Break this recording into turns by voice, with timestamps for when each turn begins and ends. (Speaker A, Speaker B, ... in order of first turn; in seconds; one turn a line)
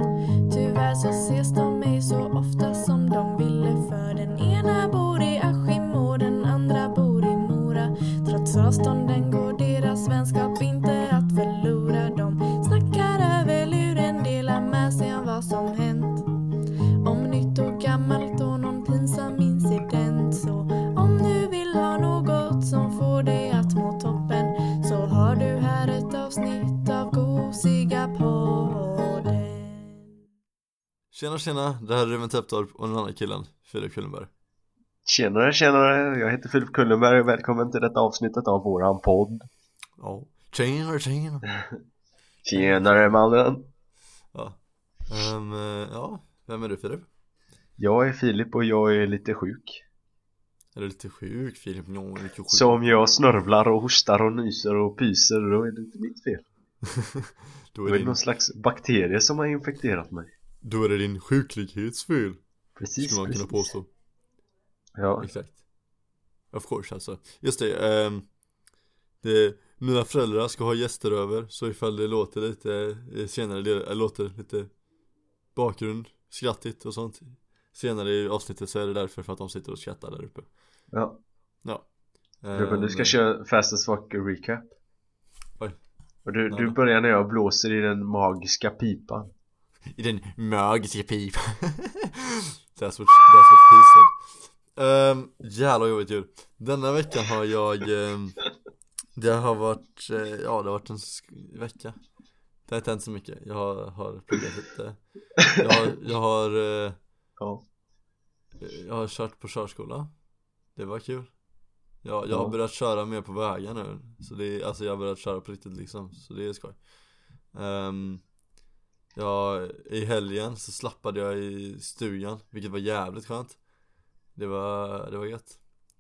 Speaker A: 0.5-16.3
Speaker A: 17.0-30.1
Speaker B: 31.1-34.3
Speaker C: 35.0-39.5
Speaker B: 40.0-41.4
Speaker C: 42.4-43.7
Speaker B: 42.5-43.0
Speaker B: 44.3-47.1
Speaker C: 47.8-49.8
Speaker B: 50.7-52.8
Speaker C: 52.5-56.4
Speaker B: 56.9-58.2
Speaker C: 57.9-60.3
Speaker B: 60.6-62.4
Speaker C: 62.8-63.7
Speaker B: 63.0-63.9
Speaker C: 65.0-65.3
Speaker B: 65.2-65.6
Speaker B: 66.5-68.2
Speaker B: 69.2-74.7
Speaker B: 75.5-80.5
Speaker C: 80.9-81.2
Speaker B: 82.4-83.2
Speaker C: 82.5-84.7
Speaker C: 86.2-89.3
Speaker B: 86.5-86.8
Speaker B: 89.9-98.4
Speaker B: 99.2-102.0
Speaker B: 102.7-107.0
Speaker B: 108.6-110.1
Speaker B: 110.8-111.3
Speaker B: 112.0-116.8
Speaker C: 112.3-112.5
Speaker B: 117.5-118.2
Speaker B: 119.1-123.6
Speaker B: 124.3-125.6